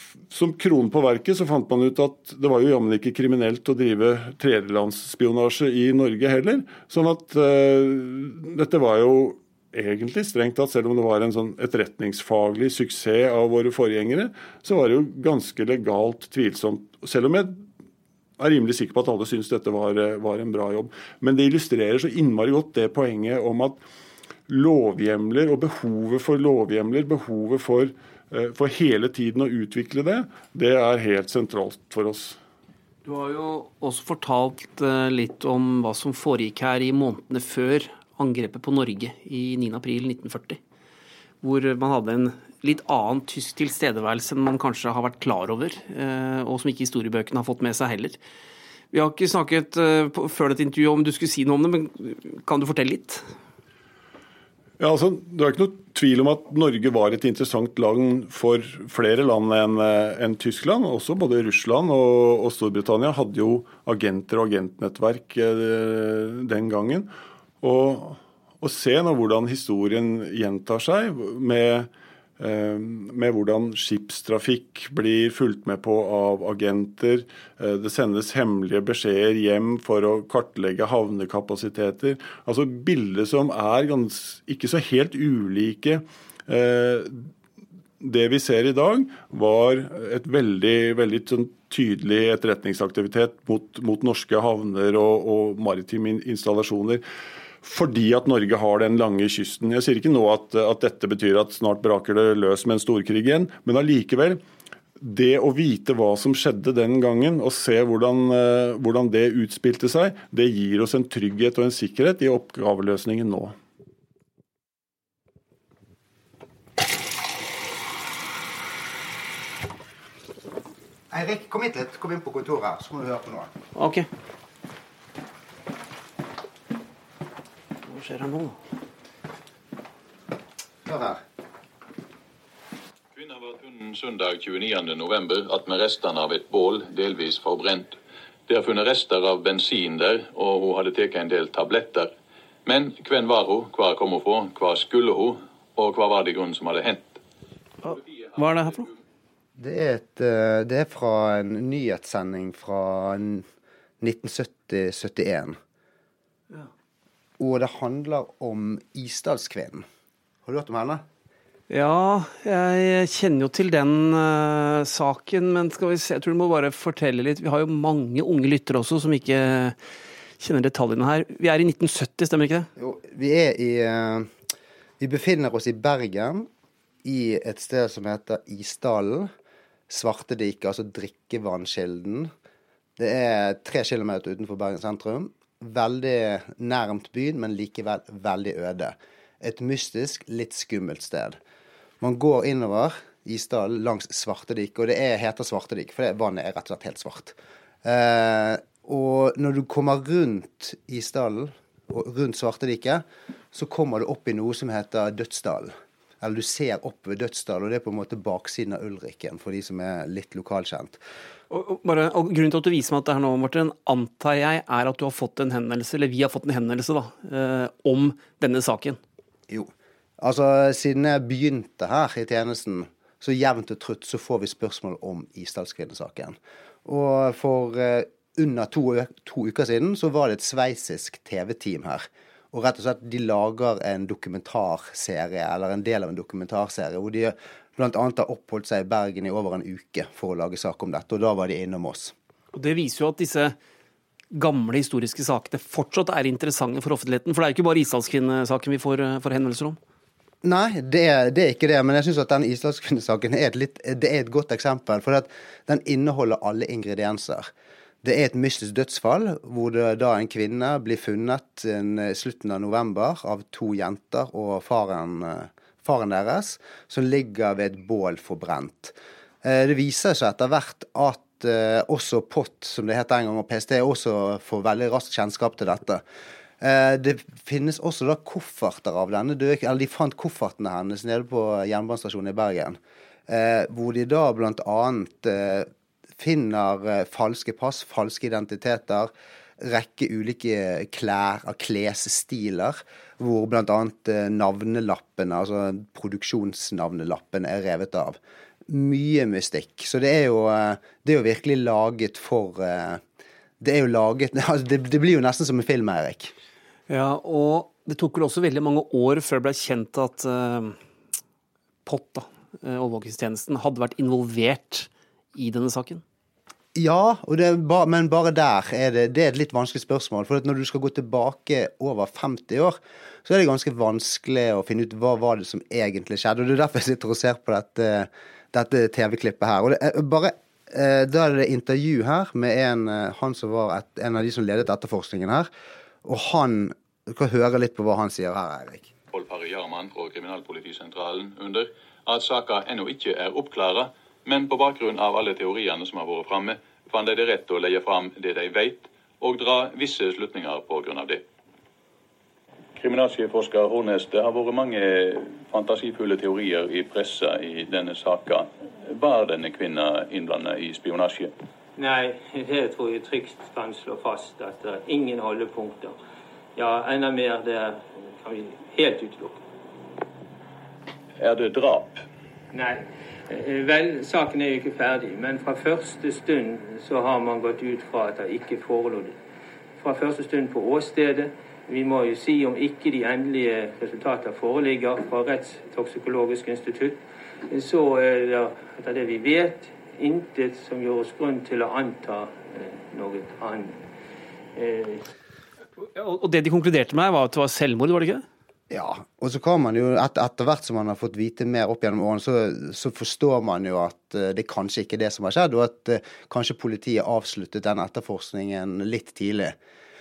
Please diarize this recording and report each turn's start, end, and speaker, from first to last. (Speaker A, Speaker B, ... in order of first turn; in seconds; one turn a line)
Speaker A: 0.3-17.6
Speaker A: 18.4-23.8
Speaker A: 24.5-32.4
Speaker B: 33.0-40.6
Speaker B: 41.4-48.2
Speaker B: 48.9-53.3
Speaker A: 54.8-87.3
Speaker A: 88.0-97.0
Speaker A: 97.6-104.4
Speaker A: 105.0-113.5
Speaker C: 121.1-123.5
Speaker B: 123.7-124.1
Speaker B: 127.8-128.6
Speaker C: 130.8-131.2
Speaker D: 133.1-138.0
Speaker D: 138.5-142.1
Speaker D: 142.7-147.2
Speaker B: 147.8-148.9
Speaker C: 149.6-153.5
Speaker C: 154.0-155.6
Speaker C: 157.4-159.8
Speaker C: 160.4-161.0
Speaker B: 161.7-169.8
Speaker B: 170.4-172.7
Speaker C: 172.8-174.3
Speaker C: 175.0-176.5
Speaker C: 177.0-179.3
Speaker C: 179.9-182.3
Speaker C: 183.0-191.4
Speaker C: 192.0-211.0
Speaker B: 211.5-219.0
Speaker C: 219.5-242.1
Speaker B: 242.5-243.5
Speaker B: 244.3-249.8
Speaker C: 250.4-257.5
Speaker C: 258.0-276.0
Speaker C: 276.6-303.0
Speaker C: 303.6-306.3
Speaker B: 306.9-310.8
Speaker B: 311.9-316.0
Speaker C: 316.8-335.5
Speaker C: 336.0-338.9
Speaker D: 339.1-351.2
Speaker D: 352.8-361.3
Speaker E: 361.8-366.0
Speaker E: 366.6-369.4
Speaker D: 371.2-372.0
Speaker E: 372.5-379.1
Speaker E: 379.8-387.0
Speaker E: 387.5-393.8
Speaker E: 394.5-395.1
Speaker B: 395.9-398.2
Speaker C: 398.7-409.6